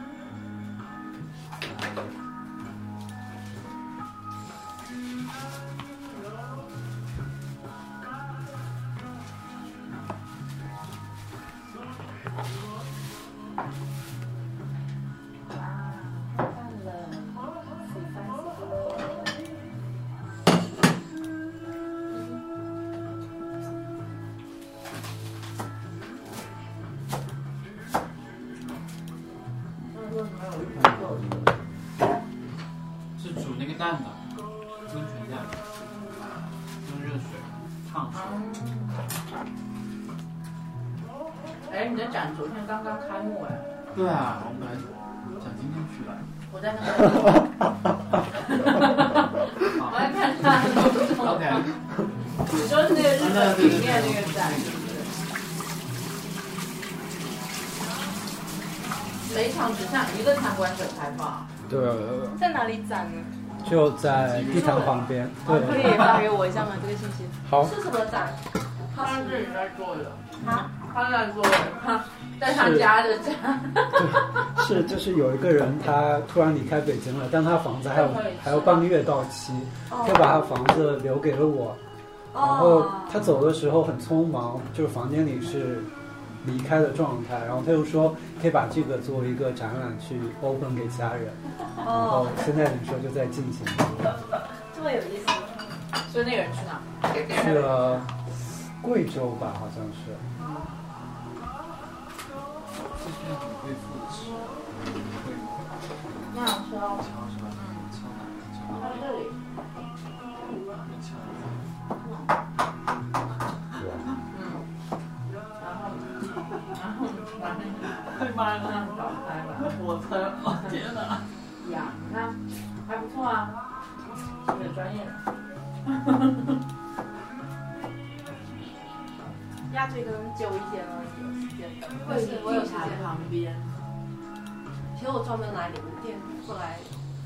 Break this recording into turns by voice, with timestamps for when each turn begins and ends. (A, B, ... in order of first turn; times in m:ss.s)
0:15.5-0:18.9 A
0:22.1-0:22.4 A
0:29.9-0:31.4 A
0:30.8-0:31.5 B
0:33.2-0:34.2 C
0:34.9-0:35.7 C
0:36.8-0:38.4 C
0:38.1-0:39.0 A
0:41.7-0:43.7 A
0:43.9-0:46.3 C
0:46.5-0:47.5 A
0:48.5-0:49.2 A
0:49.7-0:51.8 C
0:49.8-0:51.7 A
0:52.5-0:55.1 A
0:52.5-0:55.2 C
0:59.2-1:01.5 A
1:01.7-1:02.4 B
1:02.3-1:03.3 D
1:03.6-1:06.2 B
1:04.1-1:05.1 C
1:05.4-1:07.4 D
1:07.4-1:07.8 B
1:07.5-1:08.4 E
1:08.9-1:14.2 A
1:08.9-1:09.4 E
1:12.4-1:13.0 B
1:13.9-1:21.8 B
1:17.9-1:18.9 A
1:19.9-1:20.3 E
1:22.3-1:23.3 E
1:22.3-1:25.9 B
1:26.4-1:34.0 B
1:31.8-1:32.5 E
1:34.7-1:35.6 E
1:36.0-1:38.1 A
1:37.2-1:40.2 B
1:40.4-1:40.7 A
1:43.0-1:45.8 C
1:46.3-1:47.8 A
1:47.0-1:49.1 C
1:48.7-1:49.4 A
1:50.8-1:51.7 C
1:52.0-1:52.3 A
1:54.2-1:54.6 A
1:55.6-2:00.8 A
1:58.0-1:58.3 C
1:59.6-2:01.2 C
2:01.6-2:03.6 A
2:04.4-2:05.2 A
2:05.8-2:06.6 A
2:09.7-2:12.3 D
2:12.0-2:13.1 E
2:12.0-2:13.7 A
2:14.9-2:16.9 E